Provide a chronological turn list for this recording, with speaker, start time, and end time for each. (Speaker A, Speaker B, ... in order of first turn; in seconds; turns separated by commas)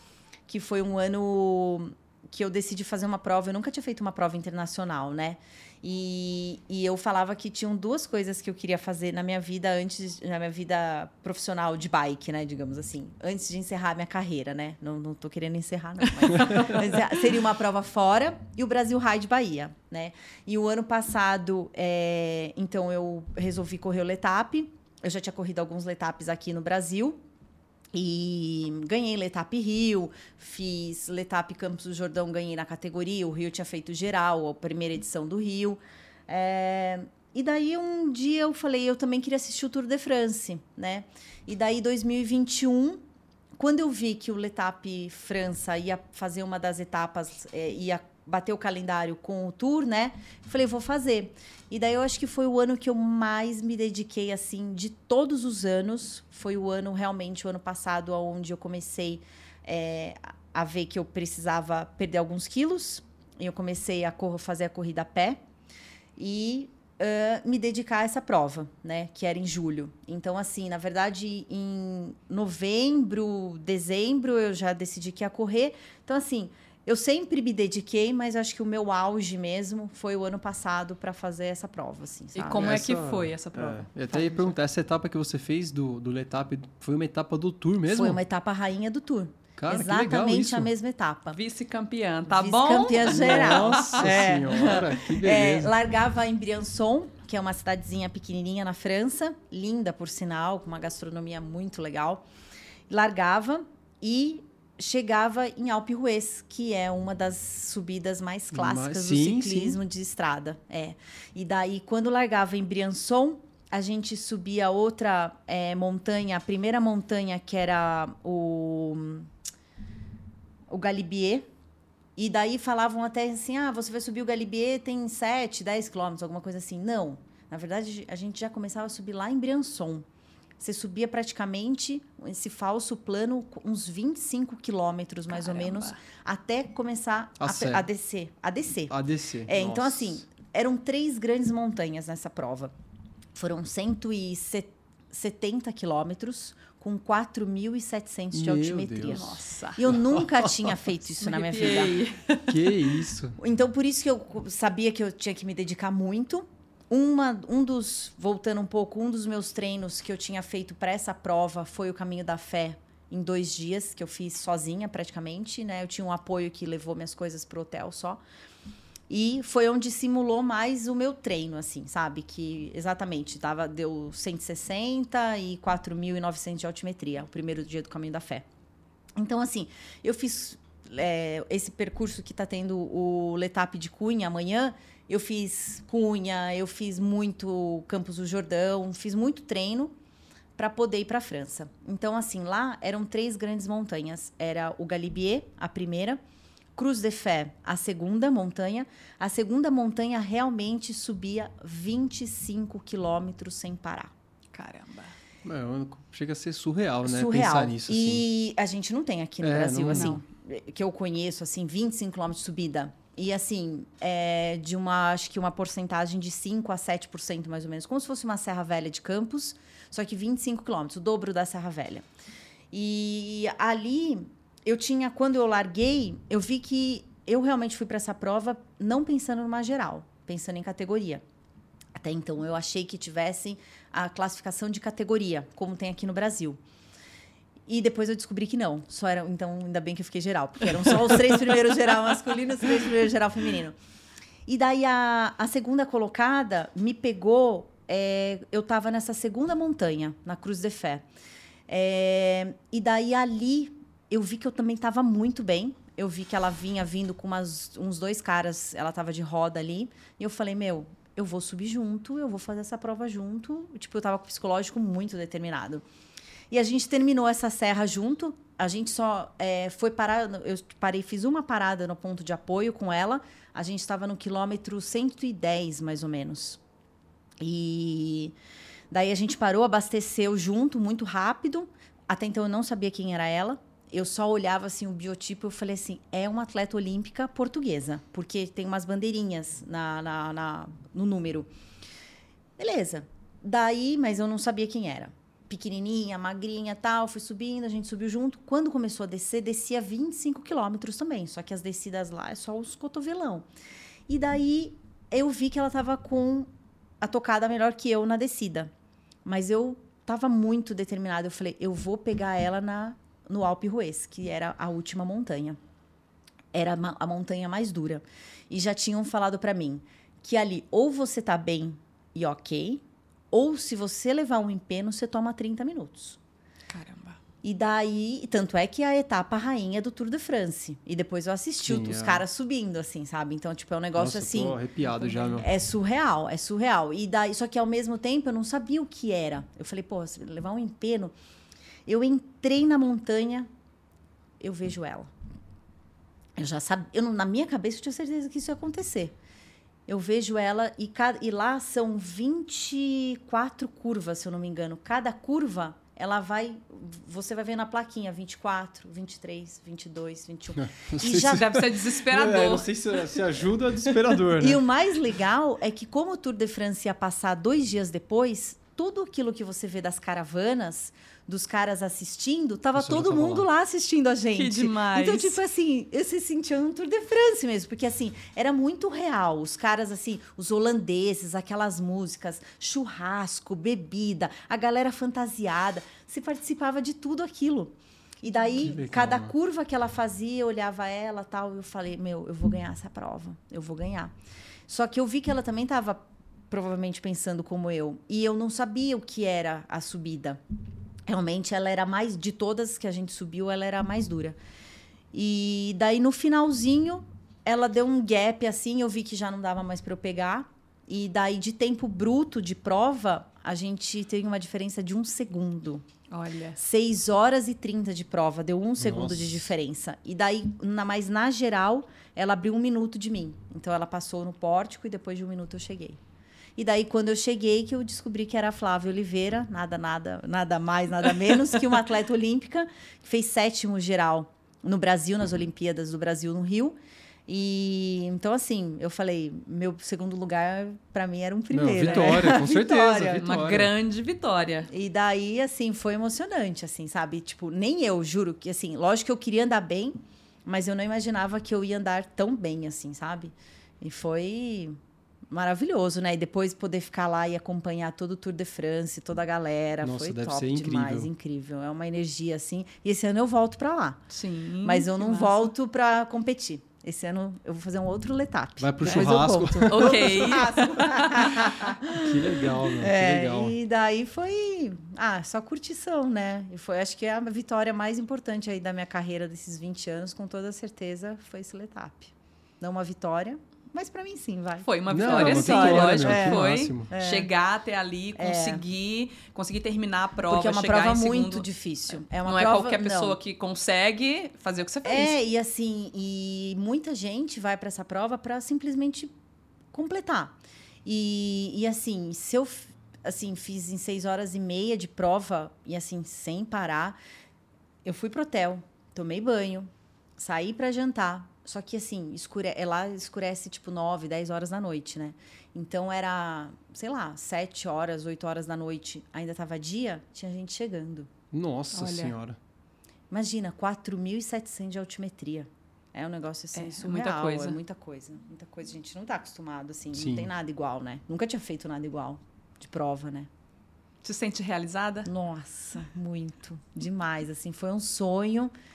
Speaker A: 0.5-27.2, Speaker A: 27.9-43.0, Speaker A: 43.6-65.4, Speaker A: 66.2-82.7, Speaker B: 82.3-84.5, Speaker C: 82.6-88.2, Speaker A: 87.9-91.4, Speaker C: 89.6-90.7, Speaker B: 91.3-94.1, Speaker A: 92.3-102.2, Speaker C: 93.0-95.7, Speaker A: 102.9-119.3, Speaker C: 108.5-109.8, Speaker A: 120.7-121.5, Speaker A: 122.2-130.1, Speaker A: 130.6-138.9, Speaker B: 135.3-136.0, Speaker C: 137.4-137.8, Speaker C: 138.9-140.2, Speaker A: 139.4-142.7, Speaker A: 143.3-151.9, Speaker C: 148.3-149.3, Speaker B: 149.0-149.8, Speaker C: 149.9-150.7, Speaker B: 151.2-152.7, Speaker C: 152.5-153.4, Speaker A: 153.4-168.2, Speaker A: 169.1-178.4, Speaker A: 179.2-189.9, Speaker A: 190.6-196.2, Speaker A: 196.7-204.1, Speaker B: 204.5-205.1, Speaker C: 205.4-208.2, Speaker A: 207.0-222.0, Speaker C: 209.4-210.2, Speaker B: 209.9-210.2, Speaker A: 222.7-231.2, Speaker A: 231.9-236.6, Speaker A: 237.7-243.8, Speaker A: 244.5-251.0, Speaker A: 251.7-265.8, Speaker A: 266.5-276.6, Speaker A: 277.4-278.3, Speaker A: 278.9-291.5, Speaker A: 292.6-303.4, Speaker A: 304.1-306.5, Speaker A: 307.0-308.7, Speaker A: 309.2-315.6, Speaker A: 316.5-326.2, Speaker B: 326.7-327.2, Speaker A: 327.4-334.6, Speaker C: 331.6-332.2, Speaker C: 333.9-335.5, Speaker A: 335.1-341.1, Speaker A: 341.9-343.5, Speaker A: 344.4-345.1, Speaker A: 346.4-349.1, Speaker A: 349.9-361.5, Speaker C: 360.6-364.6, Speaker B: 361.1-363.0, Speaker A: 364.4-394.1, Speaker C: 372.7-373.5, Speaker B: 374.3-375.4, Speaker C: 388.6-389.3, Speaker A: 394.7-400.4, Speaker A: 401.1-404.4, Speaker A: 405.1-415.9, Speaker B: 416.1-416.6, Speaker A: 416.6-426.0, Speaker C: 418.8-419.5, Speaker A: 426.6-443.2, Speaker C: 441.5-443.7, Speaker B: 441.8-442.4, Speaker B: 443.2-444.7, Speaker A: 444.7-454.7, Speaker A: 455.3-464.0, Speaker C: 459.8-461.1, Speaker B: 464.1-465.5, Speaker A: 464.6-487.3, Speaker C: 468.6-470.5, Speaker B: 469.7-471.4, Speaker C: 471.9-473.6, Speaker B: 484.6-491.5, Speaker C: 484.9-486.9, Speaker A: 488.1-488.6, Speaker A: 490.3-493.2, Speaker B: 492.1-495.1, Speaker A: 494.8-499.1, Speaker A: 499.7-507.0, Speaker A: 507.8-521.1, Speaker C: 521.3-522.4, Speaker B: 521.7-522.1, Speaker A: 523.1-533.3, Speaker B: 526.5-527.6, Speaker C: 529.9-530.3, Speaker B: 534.0-535.1, Speaker A: 535.0-538.5